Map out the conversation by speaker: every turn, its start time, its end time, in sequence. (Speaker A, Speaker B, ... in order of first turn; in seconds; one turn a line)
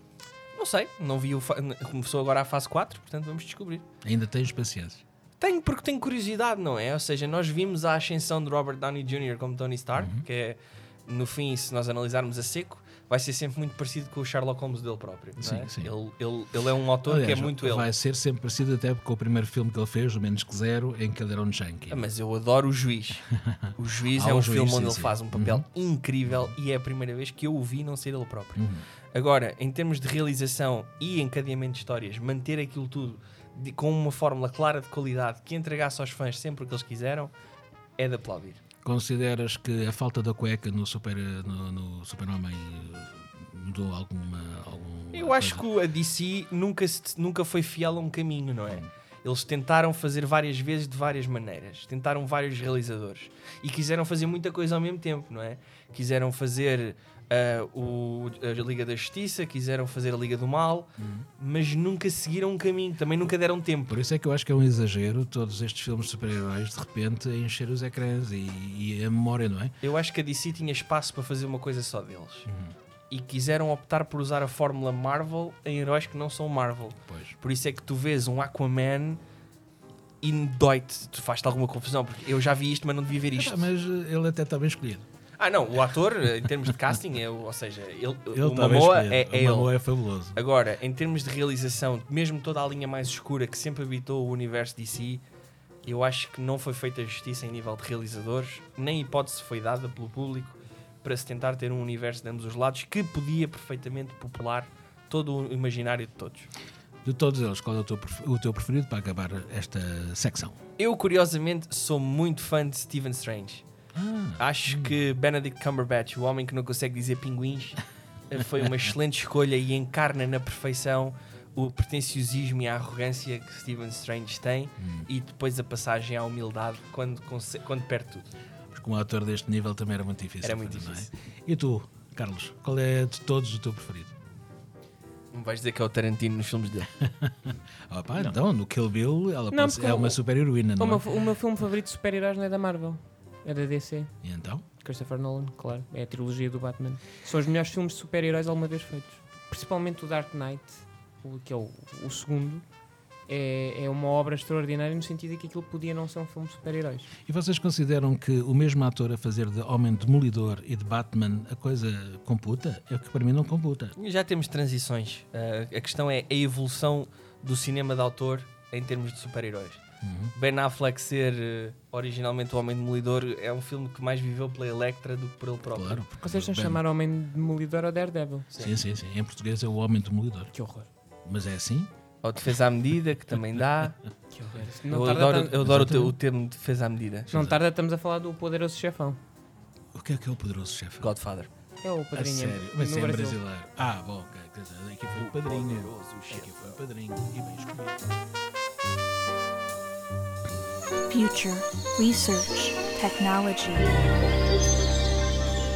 Speaker A: 0.5-3.9
Speaker B: 4.0-5.0
Speaker A: 5.4-17.9
Speaker B: 10.0-10.2
Speaker B: 15.4-15.9
Speaker B: 17.0-22.1
Speaker A: 21.9-23.2
Speaker B: 23.5-25.6
Speaker A: 23.8-28.6
Speaker B: 28.6-28.8
Speaker A: 29.1-37.3
Speaker A: 38.0-38.6
Speaker B: 38.8-45.6
Speaker A: 45.1-64.0
Speaker B: 61.0-61.3
Speaker B: 63.9-69.7
Speaker A: 69.8-72.5
Speaker B: 72.5-72.7
Speaker A: 73.1-79.2
Speaker B: 77.1-77.3
Speaker A: 80.2-83.7
Speaker B: 83.3-85.0
Speaker A: 85.4-89.8
Speaker B: 88.3-90.4
Speaker A: 90.3-95.2
Speaker A: 95.8-106.5
Speaker B: 107.0-110.6
Speaker A: 110.8-113.6
Speaker B: 113.9-114.9
Speaker A: 114.4-117.8
Speaker A: 118.3-128.3
Speaker B: 124.8-125.1
Speaker B: 128.7-134.1
Speaker A: 130.4-131.1
Speaker A: 135.3-136.9
Speaker B: 137.0-141.1
Speaker C: 139.5-144.1
Speaker B: 144.2-144.6
Speaker C: 144.8-152.6
Speaker C: 153.3-157.1
Speaker B: 157.3-163.9
Speaker A: 164.0-169.8
Speaker B: 170.0-170.3
Speaker A: 170.3-176.0
Speaker B: 175.7-176.8
Speaker C: 176.2-178.5
Speaker B: 178.6-180.5
Speaker C: 180.5-180.9
Speaker B: 181.2-181.9
Speaker A: 182.2-184.0
Speaker C: 184.3-186.1
Speaker A: 184.9-187.3
Speaker B: 185.6-186.0
Speaker C: 187.3-189.2
Speaker B: 187.3-187.6
Speaker B: 189.9-191.1
Speaker A: 191.0-191.5
Speaker C: 191.8-193.4
Speaker B: 192.1-198.1
Speaker A: 195.2-196.8
Speaker D: 201.1-204.0